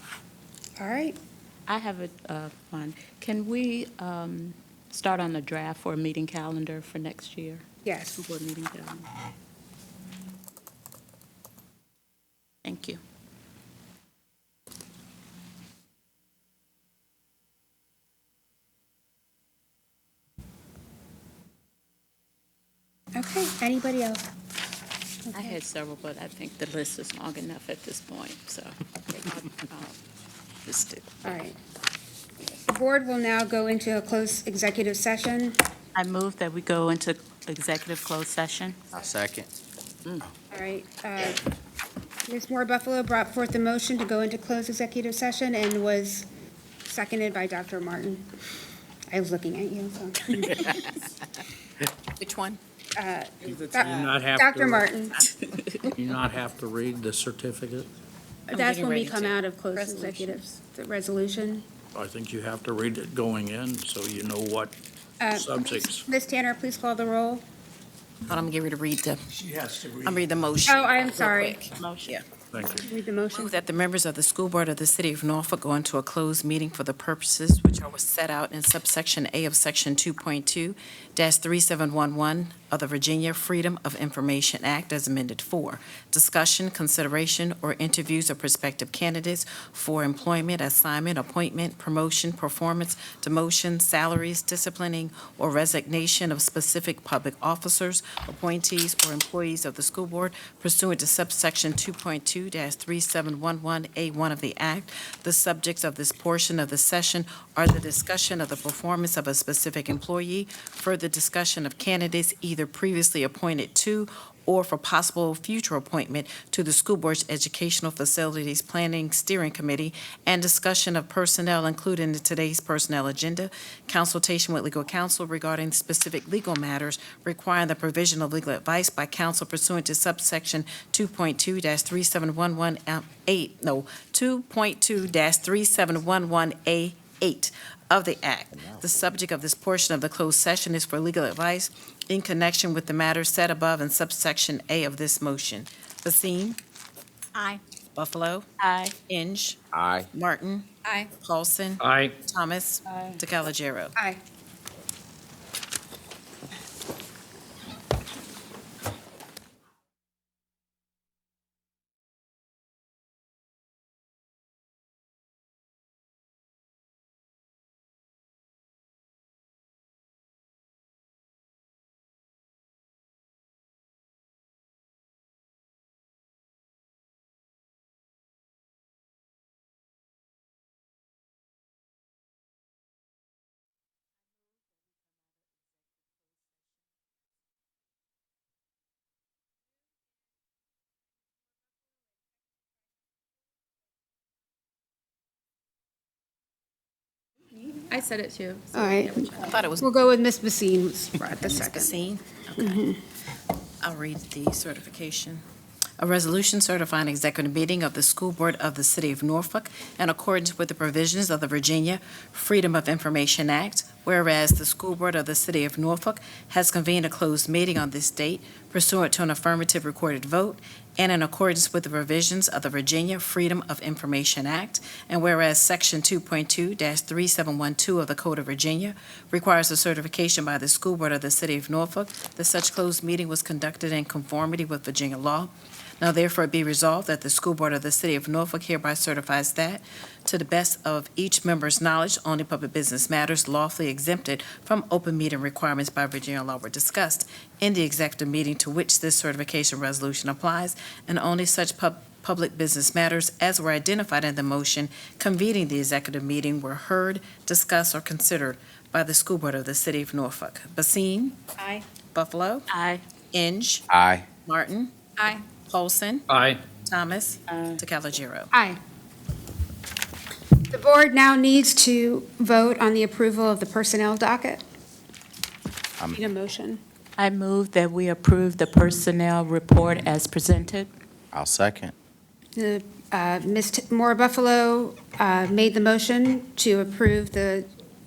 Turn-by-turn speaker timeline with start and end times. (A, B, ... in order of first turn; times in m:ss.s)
0:00.8-0:01.2 A
0:01.7-0:07.6 B
0:07.8-0:08.3 A
0:08.2-0:09.1 B
0:12.6-0:13.0 B
0:23.1-0:24.3 A
0:25.3-0:25.6 A
0:25.3-0:30.0 B
0:30.7-0:31.0 B
0:31.2-0:31.6 A
0:32.7-0:35.6 A
0:35.9-0:38.8 B
0:38.9-0:39.5 C
0:40.5-0:41.4 A
0:42.3-0:46.3 A
0:46.8-0:48.3 A
0:49.1-0:50.8 A
0:52.2-0:52.6 D
0:53.0-0:55.2 A
0:53.6-0:54.9 E
0:55.2-0:55.9 B
0:55.8-0:57.9 E
0:58.5-1:01.6 A
0:58.5-0:59.4 D
0:59.8-1:00.4 F
1:01.9-1:04.7 E
1:05.2-1:07.4 A
1:05.3-1:06.0 E
1:08.3-1:09.2 D
1:09.4-1:10.2 E
1:10.0-1:12.2 D
1:10.7-1:11.7 A
1:11.2-1:12.1 B
1:12.5-1:12.9 E
1:12.8-1:13.5 A
1:13.3-2:26.6 D
2:18.5-2:18.8 C
2:28.0-2:28.5 D
2:28.6-2:28.9 B
2:29.1-2:29.6 D
2:29.7-2:30.1 C
2:30.1-2:34.0 D
2:30.8-2:31.1 F
2:31.8-2:32.2 E
2:32.9-2:33.2 B
2:34.0-2:34.2 A
3:17.8-3:19.6 F
3:18.7-3:21.9 A
3:19.4-3:20.0 D
3:21.3-3:22.8 D
3:22.6-3:23.0 A
3:23.8-3:25.4 D
3:26.0-4:21.4 D
4:22.1-4:22.7 D
4:22.7-4:23.0 B
4:23.3-4:23.9 D
4:23.9-4:24.2 C
4:24.4-4:24.9 D
4:25.2-4:25.4 F
4:25.7-4:26.2 D
4:26.3-4:26.6 E
4:26.8-4:28.5 D
4:27.5-4:27.8 B
4:28.5-4:28.8 A
4:30.7-4:34.6 A
4:36.1-4:36.8 A
4:37.2-4:40.9 B
4:41.3-4:41.9 C
4:42.6-4:47.7 A